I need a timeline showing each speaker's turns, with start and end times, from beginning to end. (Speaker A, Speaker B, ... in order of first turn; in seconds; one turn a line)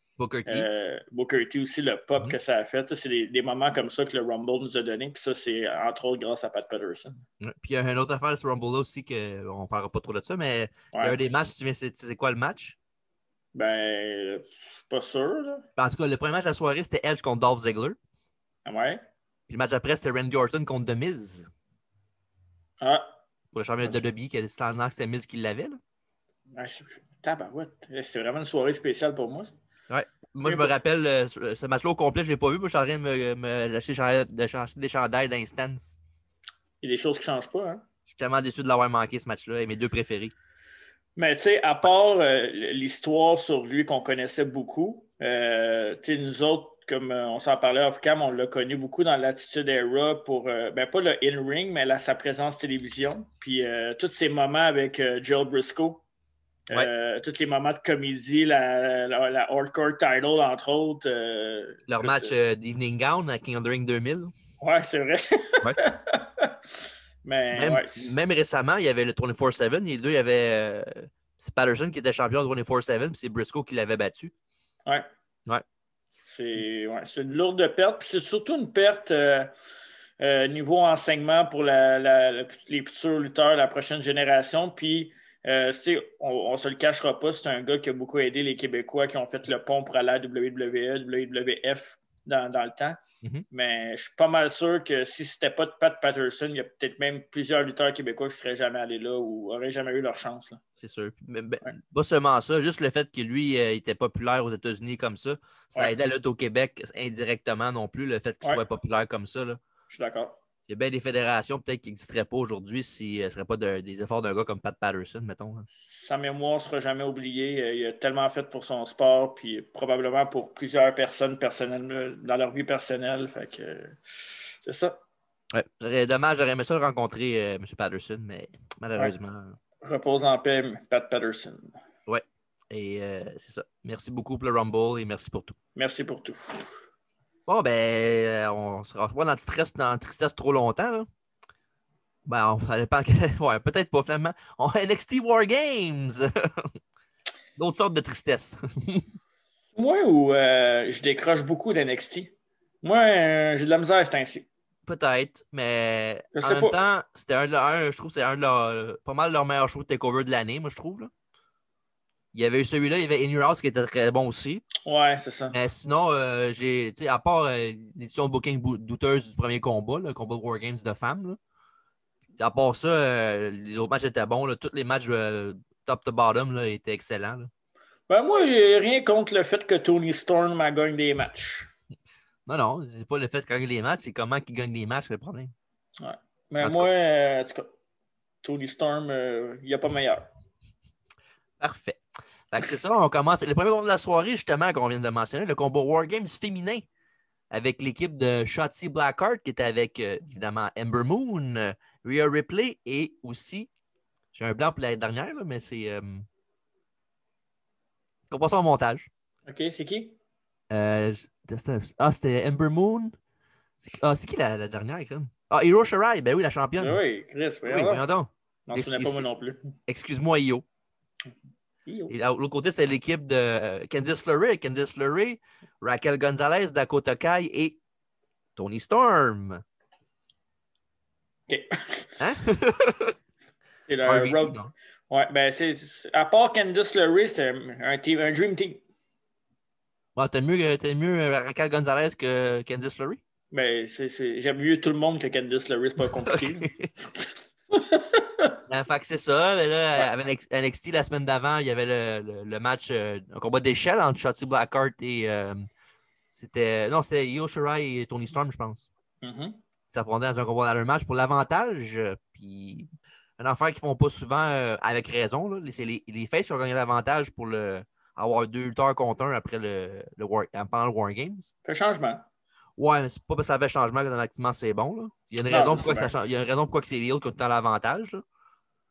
Speaker A: 0.2-0.7
Speaker B: 0.5-7.2
Speaker A: 7.4-12.8
Speaker B: 13.5-15.6
Speaker A: 15.8-18.0
Speaker B: 18.6-19.0
Speaker A: 19.5-21.5
Speaker B: 22.8-23.1
Speaker A: 23.5-25.8
Speaker B: 26.5-29.5
Speaker A: 29.9-35.9
Speaker B: 30.4-30.7
Speaker B: 36.8-37.8
Speaker A: 38.1-40.3
Speaker B: 41.1-56.0
Speaker B: 56.7-62.3
Speaker A: 61.9-64.3
Speaker B: 64.6-68.1
Speaker A: 67.5-74.3
Speaker B: 76.2-79.5
Speaker B: 80.2-93.0
Speaker B: 93.5-100.6
Speaker A: 100.7-109.6
Speaker B: 109.9-110.3
Speaker A: 110.7-115.7
Speaker B: 115.7-125.0
Speaker A: 125.5-129.6
Speaker B: 129.8-131.7
Speaker A: 132.1-135.6
Speaker B: 135.8-136.7
Speaker A: 137.5-141.1
Speaker A: 142.2-146.7
Speaker A: 147.6-149.1
Speaker B: 149.8-154.5
Speaker A: 154.8-161.1
Speaker B: 156.3-156.7
Speaker A: 162.3-164.6
Speaker B: 164.8-165.5
Speaker A: 165.5-171.4
Speaker A: 172.4-177.5
Speaker B: 178.1-181.7
Speaker A: 182.4-185.5
Speaker B: 186.0-187.7
Speaker A: 186.6-186.9
Speaker B: 188.4-190.3
Speaker A: 191.6-196.8
Speaker A: 197.5-203.7
Speaker A: 204.3-206.3
Speaker A: 208.3-209.1
Speaker B: 209.4-210.2
Speaker A: 210.7-213.2
Speaker A: 213.8-217.0
Speaker B: 216.8-218.0
Speaker A: 217.6-219.2
Speaker B: 218.7-219.7
Speaker A: 219.9-220.6
Speaker B: 221.8-222.1
Speaker A: 222.1-227.8
Speaker A: 228.6-229.6
Speaker B: 231.5-232.2
Speaker A: 232.2-233.2
Speaker B: 233.9-234.6
Speaker A: 234.0-234.7
Speaker B: 235.1-238.8
Speaker A: 240.2-243.2
Speaker B: 243.5-248.6
Speaker A: 246.2-246.9
Speaker A: 248.7-255.7
Speaker A: 256.4-258.9
Speaker B: 259.2-259.6
Speaker A: 259.9-262.9
Speaker A: 263.4-271.5
Speaker B: 271.6-272.2
Speaker A: 272.8-278.2
Speaker B: 275.5-276.1